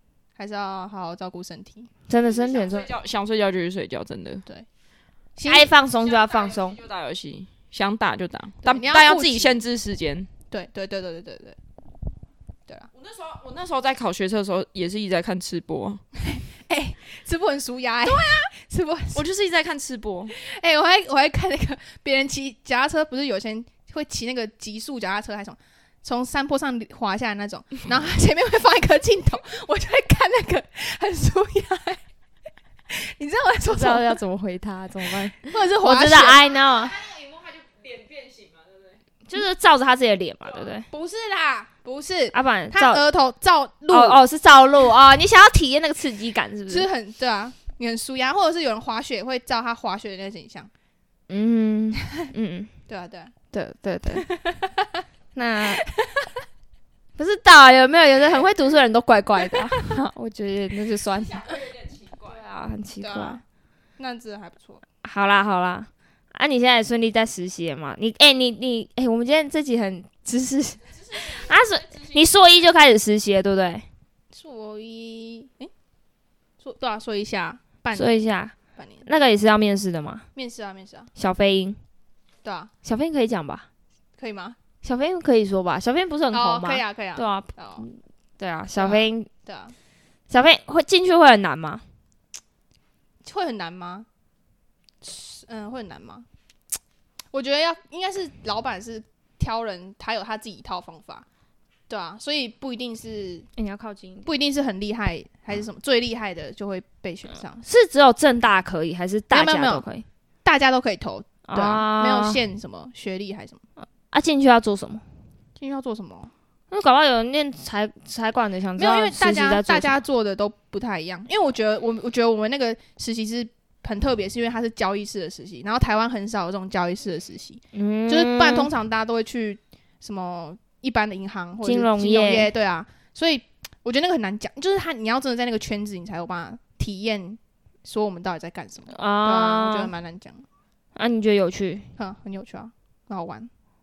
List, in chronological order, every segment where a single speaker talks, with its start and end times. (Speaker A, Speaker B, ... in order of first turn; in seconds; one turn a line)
Speaker A: 0.4-1.9
Speaker B: 2.1-2.9
Speaker C: 2.4-4.5
Speaker A: 5.4-5.7
Speaker B: 5.5-6.8
Speaker C: 6.2-10.3
Speaker A: 8.6-9.6
Speaker A: 10.5-11.6
Speaker C: 13.0-16.0
Speaker A: 16.3-19.2
Speaker C: 19.1-20.3
Speaker A: 20.3-32.0
Speaker A: 32.9-34.2
Speaker B: 33.7-37.0
Speaker A: 35.5-36.4
Speaker C: 36.9-38.8
Speaker B: 39.3-40.9
Speaker A: 40.9-44.2
Speaker B: 42.3-43.0
Speaker B: 43.9-46.9
Speaker A: 46.7-50.7
Speaker B: 51.3-52.7
Speaker A: 52.9-53.3
Speaker B: 53.5-54.3
Speaker A: 54.1-55.0
Speaker B: 55.4-55.8
Speaker B: 57.2-63.4
Speaker A: 63.0-63.4
Speaker A: 64.0-64.8
Speaker B: 65.0-73.9
Speaker A: 74.3-75.7
Speaker A: 76.6-78.2
Speaker B: 77.9-78.5
Speaker A: 78.8-79.1
Speaker B: 79.1-80.3
Speaker A: 80.3-81.1
Speaker B: 81.2-81.8
Speaker A: 82.5-82.7
Speaker B: 82.8-83.7
Speaker A: 84.2-84.6
Speaker B: 84.8-89.3
Speaker A: 86.3-87.9
Speaker A: 88.8-89.8
Speaker B: 90.3-91.8
Speaker A: 93.2-94.1
Speaker A: 95.0-96.3
Speaker A: 97.3-101.2
Speaker A: 101.9-103.5
Speaker B: 103.6-104.3
Speaker A: 104.2-107.7
Speaker B: 107.7-110.1
Speaker A: 109.3-109.8
Speaker A: 110.4-113.6
Speaker B: 111.5-112.4
Speaker B: 114.1-115.0
Speaker A: 115.6-116.3
Speaker B: 116.7-120.0
Speaker A: 118.8-140.4
Speaker B: 127.7-128.7
Speaker B: 131.6-132.5
Speaker B: 138.9-139.9
Speaker B: 141.0-141.9
Speaker A: 142.0-143.5